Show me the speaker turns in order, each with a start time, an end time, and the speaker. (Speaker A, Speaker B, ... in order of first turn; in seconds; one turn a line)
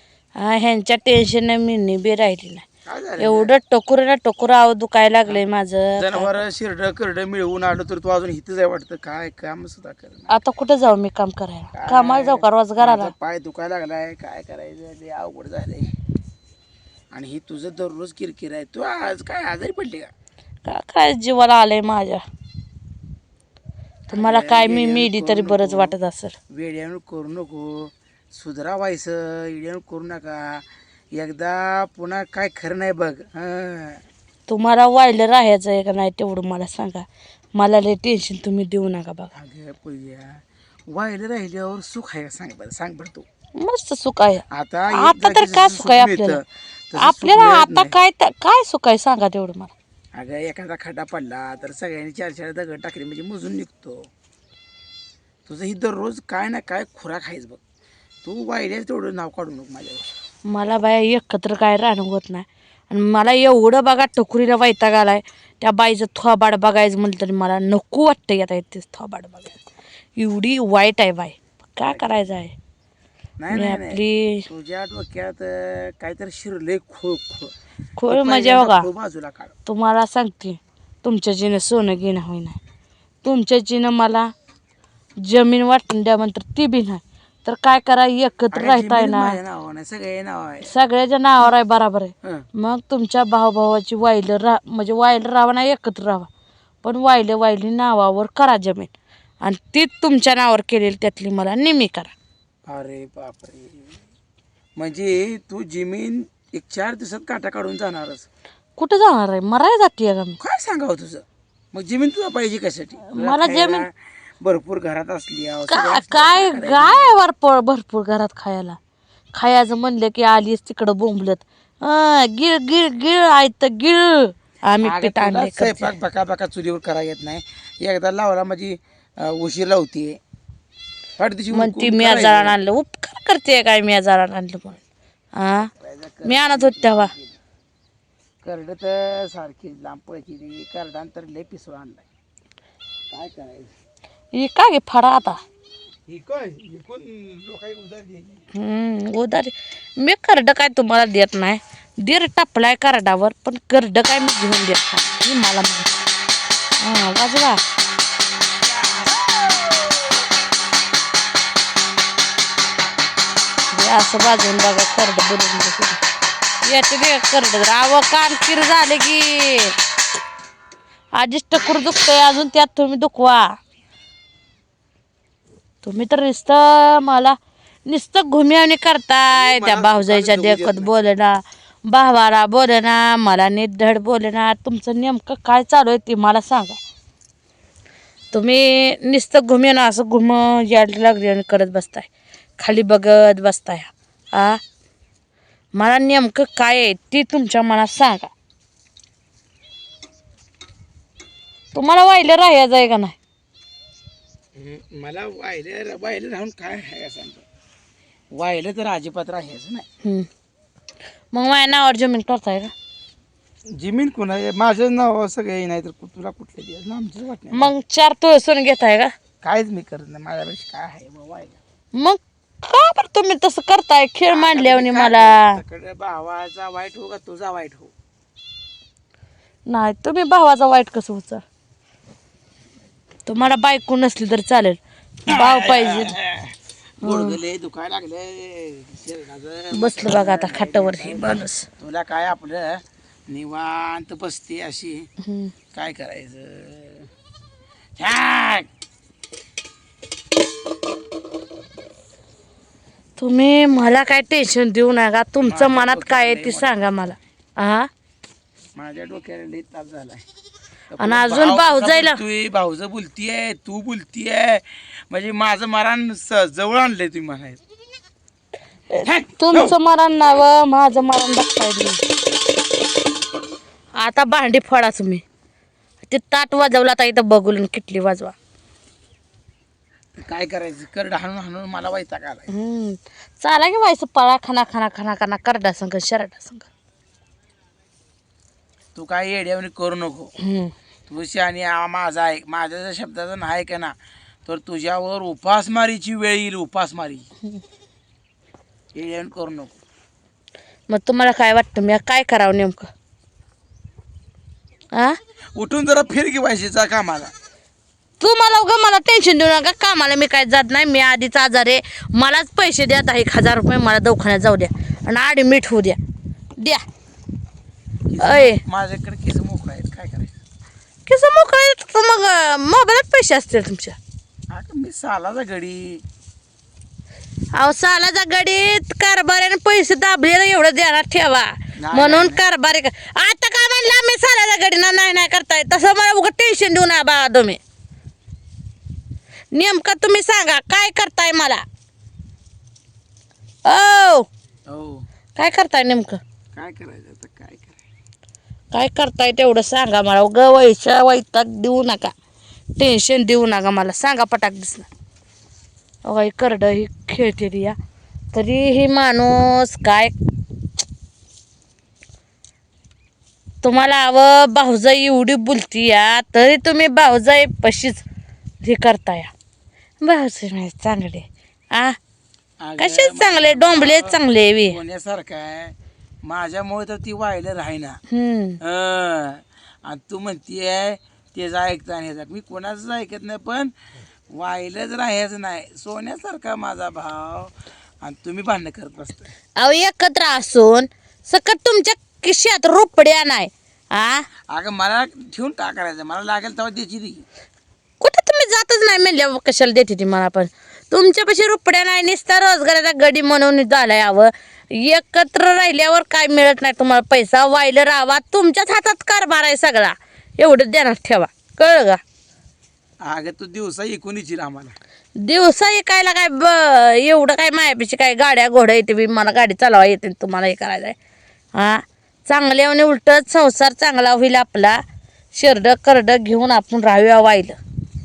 Speaker A: 0.4-2.6
Speaker B: 2.9-3.5
Speaker A: 3.2-6.4
Speaker B: 6.0-10.3
Speaker A: 10.3-13.1
Speaker B: 11.7-15.9
Speaker B: 17.1-20.1
Speaker A: 20.6-22.2
Speaker A: 24.1-26.4
Speaker B: 24.1-25.9
Speaker B: 26.5-34.0
Speaker A: 34.5-39.3
Speaker B: 39.3-43.2
Speaker A: 43.5-46.4
Speaker B: 44.5-47.9
Speaker A: 47.0-49.7
Speaker B: 50.1-54.1
Speaker B: 55.5-57.6
Speaker B: 58.2-60.1
Speaker A: 60.5-69.6
Speaker A: 70.2-72.5
Speaker B: 71.8-72.3
Speaker B: 73.4-77.5
Speaker A: 73.5-74.5
Speaker A: 78.0-78.9
Speaker B: 78.1-79.5
Speaker A: 79.7-82.6
Speaker A: 83.2-84.3
Speaker A: 85.2-89.4
Speaker B: 88.5-90.7
Speaker A: 90.7-96.3
Speaker A: 96.8-98.9
Speaker A: 99.4-102.1
Speaker B: 102.7-104.0
Speaker B: 104.8-108.2
Speaker A: 108.8-110.4
Speaker B: 110.4-117.2
Speaker A: 113.1-113.8
Speaker A: 115.7-118.8
Speaker A: 119.3-125.9
Speaker B: 124.8-130.2
Speaker B: 131.2-132.6
Speaker A: 131.5-134.8
Speaker A: 135.3-135.7
Speaker B: 135.8-137.4
Speaker A: 136.2-137.1
Speaker B: 138.4-142.1
Speaker B: 143.1-143.7
Speaker A: 144.3-145.4
Speaker B: 146.1-148.4
Speaker A: 148.5-155.9
Speaker A: 156.8-157.6
Speaker B: 158.9-159.9
Speaker A: 163.7-166.0
Speaker A: 166.6-169.7
Speaker A: 171.1-173.6
Speaker A: 175.8-186.8
Speaker B: 179.3-180.9
Speaker A: 188.3-194.6
Speaker A: 195.7-198.3
Speaker A: 201.7-203.2
Speaker B: 204.5-207.4
Speaker B: 208.3-209.9
Speaker A: 211.3-212.7
Speaker B: 213.7-217.7
Speaker A: 217.5-219.1
Speaker B: 219.4-221.6
Speaker A: 221.9-225.6
Speaker B: 224.3-227.9
Speaker A: 229.7-231.4
Speaker A: 233.2-236.1
Speaker B: 235.3-245.1
Speaker A: 237.0-237.4
Speaker A: 239.7-241.7
Speaker A: 245.2-245.5
Speaker B: 245.7-247.1
Speaker B: 248.0-248.7
Speaker A: 253.2-257.9
Speaker B: 255.4-256.8
Speaker B: 258.8-260.2
Speaker B: 260.9-267.6
Speaker A: 261.0-262.2
Speaker B: 268.9-269.8
Speaker A: 268.9-272.0
Speaker A: 274.0-275.2
Speaker A: 276.0-278.3
Speaker B: 280.2-282.5
Speaker A: 282.5-286.7
Speaker B: 288.9-290.3
Speaker A: 290.4-290.7
Speaker B: 291.1-297.3
Speaker B: 298.9-299.8
Speaker A: 300.9-302.9
Speaker A: 304.9-305.2
Speaker B: 305.5-307.3
Speaker A: 308.2-316.0
Speaker A: 316.6-316.8
Speaker B: 318.1-320.4
Speaker A: 318.2-318.6
Speaker A: 321.1-324.0
Speaker B: 324.5-326.0
Speaker A: 327.5-337.6
Speaker B: 331.8-332.4
Speaker A: 339.5-341.6
Speaker A: 343.6-344.3
Speaker B: 344.7-345.1
Speaker A: 345.4-346.2
Speaker B: 346.5-347.8
Speaker A: 348.7-352.1
Speaker A: 352.8-354.9
Speaker A: 356.0-357.8
Speaker A: 358.3-360.1
Speaker A: 363.6-368.0
Speaker A: 368.6-369.3
Speaker A: 370.0-372.0
Speaker B: 372.6-378.0
Speaker A: 372.8-374.8
Speaker A: 378.1-378.6
Speaker B: 378.6-383.7
Speaker B: 384.3-389.3
Speaker A: 389.6-394.2
Speaker B: 394.5-397.2
Speaker A: 398.0-412.0
Speaker B: 413.0-414.8
Speaker A: 415.2-421.0
Speaker A: 421.5-424.8
Speaker A: 425.3-427.6